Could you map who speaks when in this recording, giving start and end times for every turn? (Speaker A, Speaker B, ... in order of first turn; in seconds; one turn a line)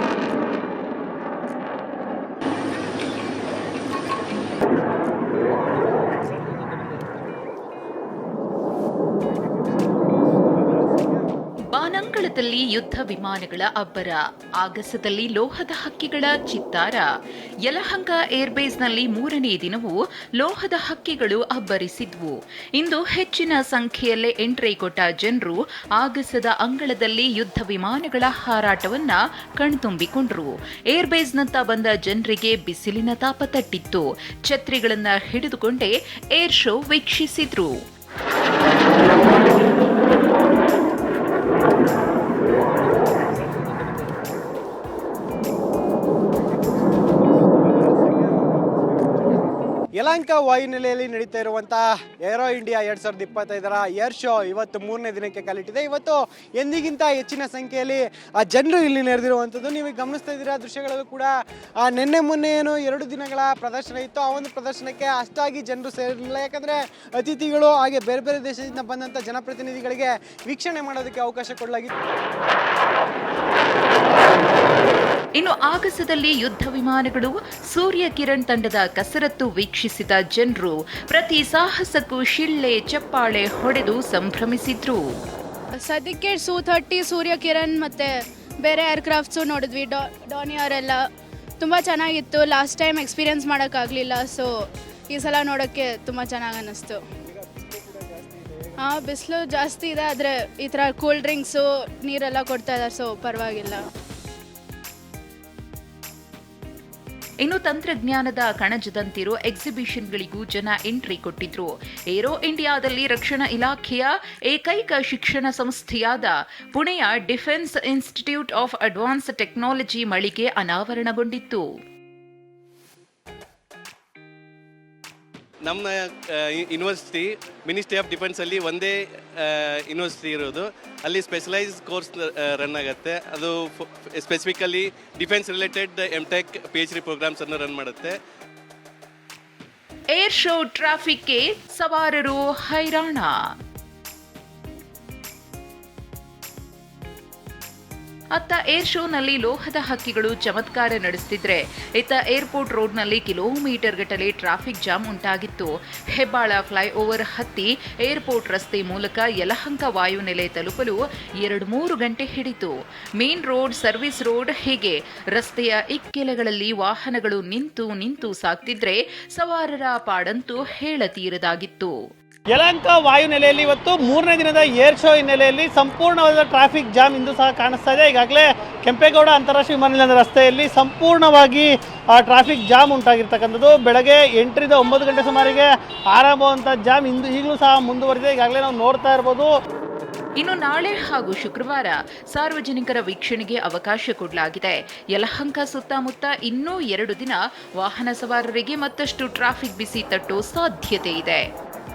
Speaker A: 11.7-17.1
Speaker A: 17.6-37.8
Speaker B: 50.0-61.3
Speaker B: 61.8-71.9
Speaker A: 75.4-85.0
Speaker C: 85.8-91.0
Speaker C: 91.6-94.5
Speaker C: 95.1-97.0
Speaker C: 98.8-103.8
Speaker A: 107.4-121.7
Speaker D: 125.7-138.2
Speaker A: 140.1-143.4
Speaker A: 148.3-172.0
Speaker E: 172.5-189.5
Speaker A: 190.4-201.5